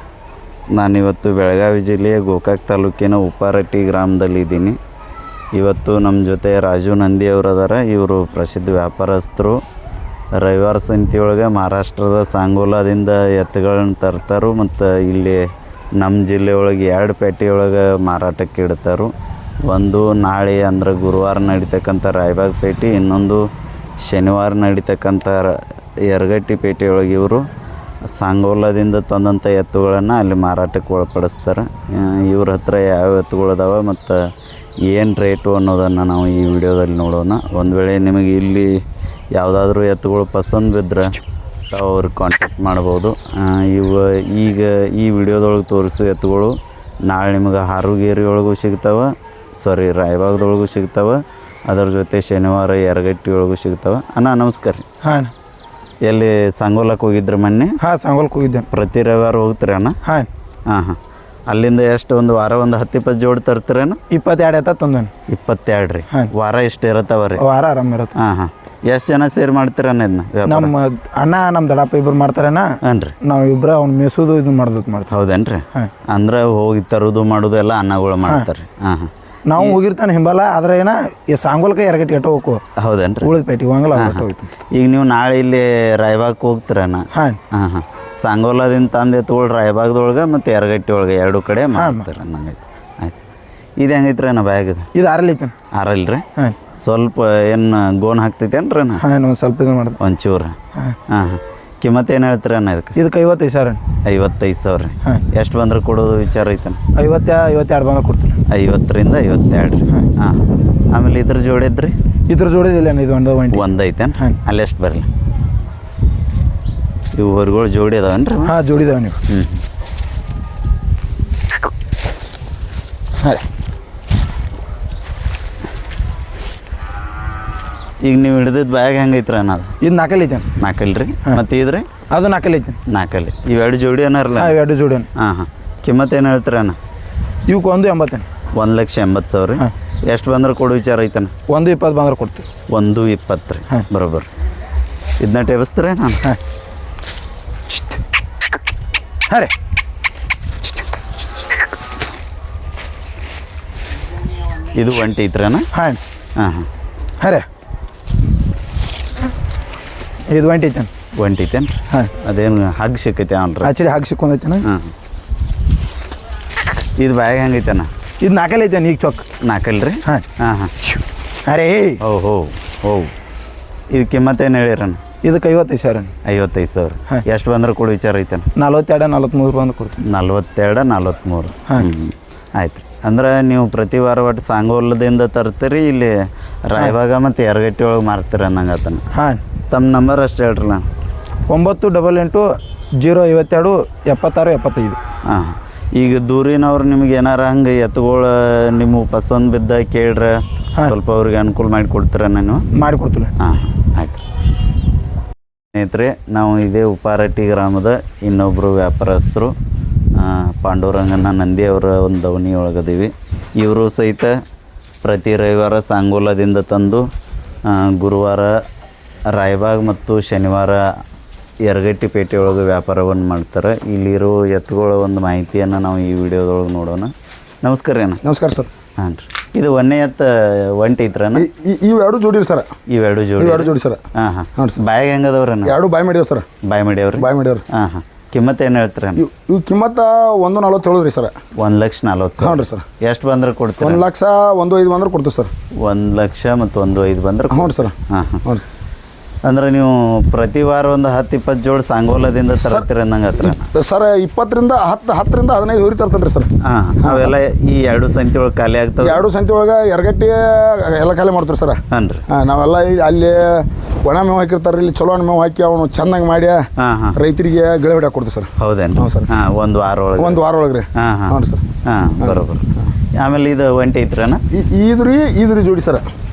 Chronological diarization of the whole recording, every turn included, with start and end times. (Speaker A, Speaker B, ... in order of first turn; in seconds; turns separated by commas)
Speaker A: 0.7-4.8, Speaker A: 5.5-9.6, Speaker A: 10.3-19.1, Speaker A: 19.6-23.4, Speaker A: 24.0-27.4, Speaker A: 28.1-34.3, Speaker A: 34.9-38.8, Speaker A: 39.3-54.9, Speaker B: 55.0-55.3, Speaker A: 56.0-57.8, Speaker B: 57.8-58.7, Speaker A: 58.7-60.0, Speaker A: 60.7-61.0, Speaker A: 61.5-64.0, Speaker B: 64.1-65.1, Speaker A: 65.3-67.4, Speaker B: 67.4-68.1, Speaker A: 68.1-70.7, Speaker B: 70.5-75.1, Speaker A: 72.8-73.2, Speaker A: 75.1-79.8, Speaker B: 79.5-82.6, Speaker A: 82.8-83.3, Speaker B: 83.2-84.5, Speaker A: 83.9-93.2, Speaker B: 87.1-87.4, Speaker B: 91.8-92.0, Speaker A: 93.8-94.9, Speaker B: 94.9-95.5, Speaker A: 95.7-96.2, Speaker A: 96.8-99.0, Speaker B: 99.0-100.0, Speaker A: 100.0-100.6, Speaker A: 101.1-103.0, Speaker B: 103.0-103.8, Speaker A: 104.0-106.8, Speaker B: 107.0-108.4, Speaker A: 108.5-111.9, Speaker B: 112.3-113.6, Speaker A: 113.5-115.1, Speaker A: 117.1-118.5, Speaker B: 118.5-119.2, Speaker A: 119.3-119.6, Speaker A: 128.0-129.7, Speaker B: 129.8-130.5, Speaker A: 130.6-131.9, Speaker B: 132.1-132.8, Speaker A: 132.9-134.6, Speaker B: 134.4-135.1, Speaker A: 135.2-136.8, Speaker B: 137.5-138.2, Speaker A: 138.5-141.3, Speaker B: 141.5-142.4, Speaker A: 142.7-144.3, Speaker A: 145.2-146.2, Speaker A: 154.7-155.7, Speaker B: 155.7-156.0, Speaker A: 156.4-156.7, Speaker B: 157.2-157.5, Speaker B: 160.3-160.9, Speaker A: 161.2-163.7, Speaker B: 163.6-164.7, Speaker A: 164.6-164.9, Speaker A: 167.0-167.9, Speaker B: 168.2-169.2, Speaker A: 169.4-170.7, Speaker B: 171.5-172.0, Speaker A: 172.0-173.1, Speaker A: 173.9-175.0, Speaker B: 175.2-176.1, Speaker A: 176.2-178.5, Speaker B: 178.6-180.0, Speaker A: 180.0-189.0, Speaker B: 189.1-189.4, Speaker A: 189.7-190.8, Speaker B: 191.5-192.5, Speaker B: 193.0-195.0, Speaker A: 195.3-202.7, Speaker B: 202.8-203.3, Speaker A: 203.4-204.2, Speaker A: 205.7-209.5, Speaker A: 210.2-214.4, Speaker A: 215.0-217.1, Speaker A: 217.7-218.6, Speaker A: 219.3-220.8, Speaker A: 221.7-228.2, Speaker C: 228.2-228.7, Speaker A: 229.0-231.5, Speaker C: 231.3-232.7, Speaker A: 232.9-235.8, Speaker C: 233.4-234.0, Speaker C: 234.6-234.8, Speaker C: 235.6-236.4, Speaker A: 236.7-239.2, Speaker C: 237.2-237.6, Speaker C: 239.2-241.3, Speaker A: 241.6-244.0, Speaker C: 242.4-242.8, Speaker C: 243.8-245.5, Speaker A: 245.8-248.4, Speaker C: 247.5-248.7, Speaker A: 249.4-253.7, Speaker C: 252.6-252.8, Speaker C: 253.4-256.5, Speaker A: 256.6-259.2, Speaker C: 257.0-257.3, Speaker C: 259.0-266.6, Speaker A: 261.9-262.2, Speaker A: 266.8-267.2, Speaker C: 267.1-269.3, Speaker A: 268.6-270.4, Speaker C: 270.2-271.6, Speaker A: 270.9-274.4, Speaker C: 272.2-272.5, Speaker C: 274.5-276.1